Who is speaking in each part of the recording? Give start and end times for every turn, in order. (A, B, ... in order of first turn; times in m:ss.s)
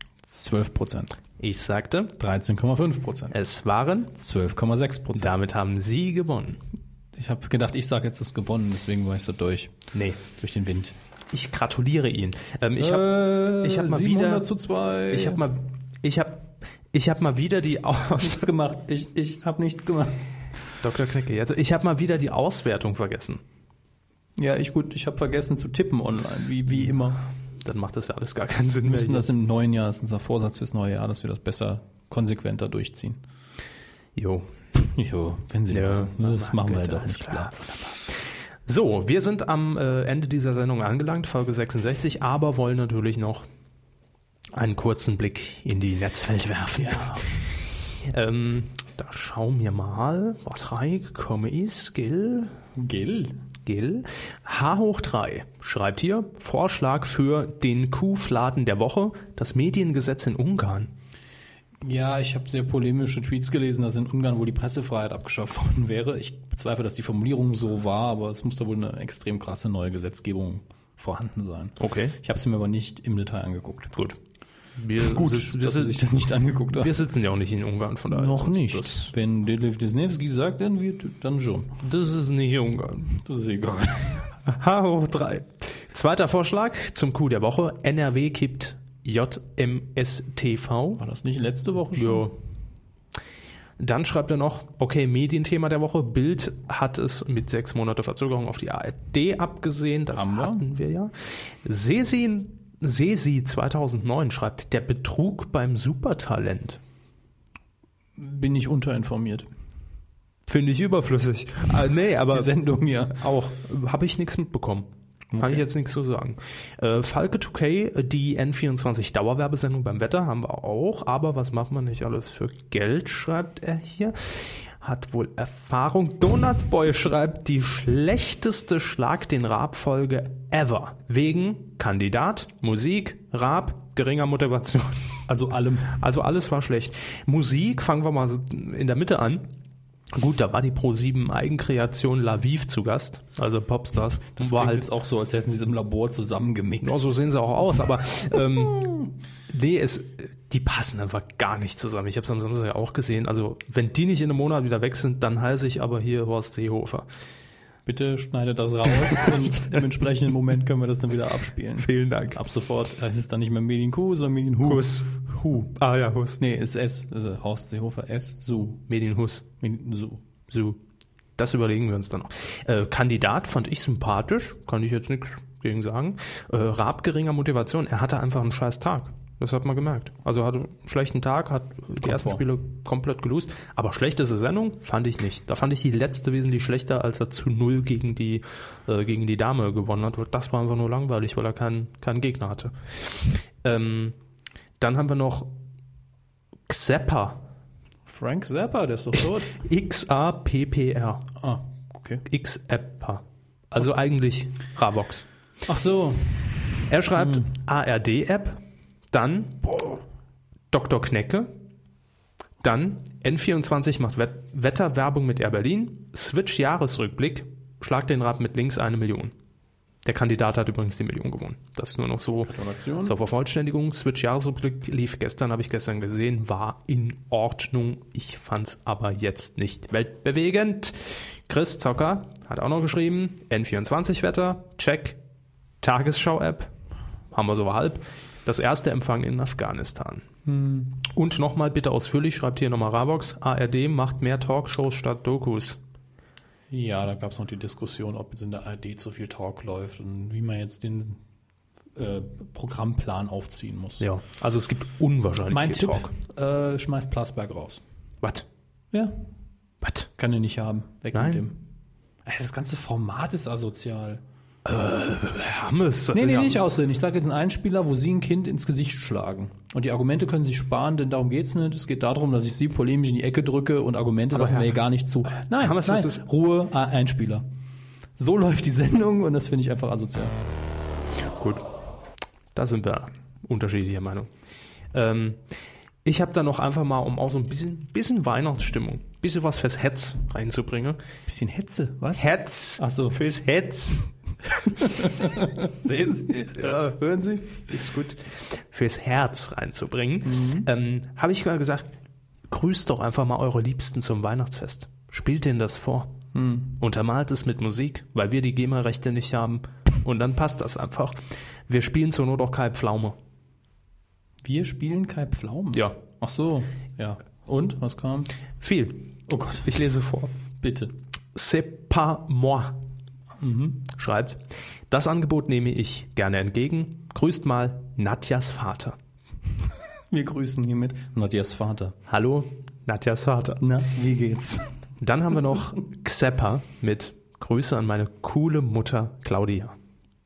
0:00.2-0:01.2 A
0:01.4-0:02.1 B
0:02.2-0:03.4 A
0:03.3-0:04.1 B
0:04.1-0:05.4 A
0:05.2-0:06.6 B
0:07.2-0:11.0 A
0:09.9-0:10.2 B
0:11.3-0:14.5 B
0:12.8-0:15.4 A
0:15.1-0:18.5 B
0:18.2-0:20.3 A
0:20.8-0:23.4 B
0:24.4-0:27.2 A
0:27.6-0:29.3 B
0:28.8-0:33.2 A
0:34.2-0:34.5 B
0:34.8-0:37.6 A
0:35.7-0:43.5 B
0:44.5-0:47.3 B
0:46.8-0:47.2 A
0:48.0-0:52.6 B
0:52.8-0:53.4 A
0:53.7-1:00.9 B
1:01.8-1:14.0 A
1:11.8-1:12.2 B
1:14.8-1:16.0 B
1:15.0-1:17.0 A
1:16.7-1:19.1 B
1:18.1-1:21.8 A
1:21.8-1:23.1 B
1:23.1-1:24.2 A
1:24.4-1:31.0 B
1:31.0-1:32.3 A
1:32.0-1:32.4 B
1:33.8-1:46.8 B
1:40.1-1:40.7 A
1:48.2-1:49.5 A
1:50.5-1:52.6 B
1:52.3-1:53.4 A
1:53.1-2:15.2 B
1:55.3-1:55.7 A
2:15.3-2:16.0 A
2:15.9-2:19.5 B
2:20.1-2:24.9 B
2:24.4-2:27.1 A
2:26.8-2:37.1 B
2:37.9-2:45.7 A
2:41.8-2:42.4 B
2:44.6-2:46.4 B
2:46.4-2:48.8 A
2:48.9-2:49.5 B
2:49.6-2:50.2 A
2:50.5-2:50.8 B
2:51.4-3:14.2 B
3:02.0-3:02.4 A
3:14.8-3:15.5 B
3:16.7-3:17.4 B
3:18.1-3:19.5 A
3:19.5-3:21.3 B
3:21.4-3:22.2 A
3:22.2-3:25.3 B
3:25.7-3:27.4 A
3:26.9-3:29.8 B
3:30.7-3:31.5 B
3:32.6-3:39.3 B
3:40.0-3:55.2 B
3:42.4-3:43.2 A
3:55.8-3:56.7 B
3:57.3-4:00.3 B
4:00.5-4:00.9 A
4:01.0-4:05.8 B
4:06.7-4:11.2 A
4:12.0-4:14.1 A
4:14.0-4:16.1 B
4:15.5-4:17.8 A
4:19.8-4:20.1 B
4:20.2-4:21.6 A
4:21.1-4:21.5 B
4:22.2-4:24.2 A
4:24.6-4:26.6 B
4:26.1-4:37.5 A
4:34.3-4:36.2 B
4:38.2-4:40.4 A
4:41.3-4:41.6 B
4:42.5-4:44.3 B
4:44.9-4:45.4 B
4:46.0-4:51.0 B
4:51.3-4:53.2 A
4:52.2-4:54.1 B
4:54.6-4:55.0 B
4:54.8-4:57.6 A
4:56.6-4:56.9 B
4:57.6-5:01.9 B
5:00.3-5:00.7 A
5:02.5-5:06.2 B
5:06.3-5:06.8 A
5:06.8-5:11.2 B
5:11.7-5:13.2 B
5:14.4-5:18.3 A
5:15.7-5:16.0 B
5:18.6-5:20.4 B
5:19.3-5:19.7 A
5:20.6-5:20.9 A
5:21.4-5:22.8 B
5:23.4-5:23.9 A
5:23.9-5:29.0 B
5:30.1-5:32.0 A
5:32.1-5:33.6 B
5:33.6-5:34.7 A
5:35.0-5:39.8 B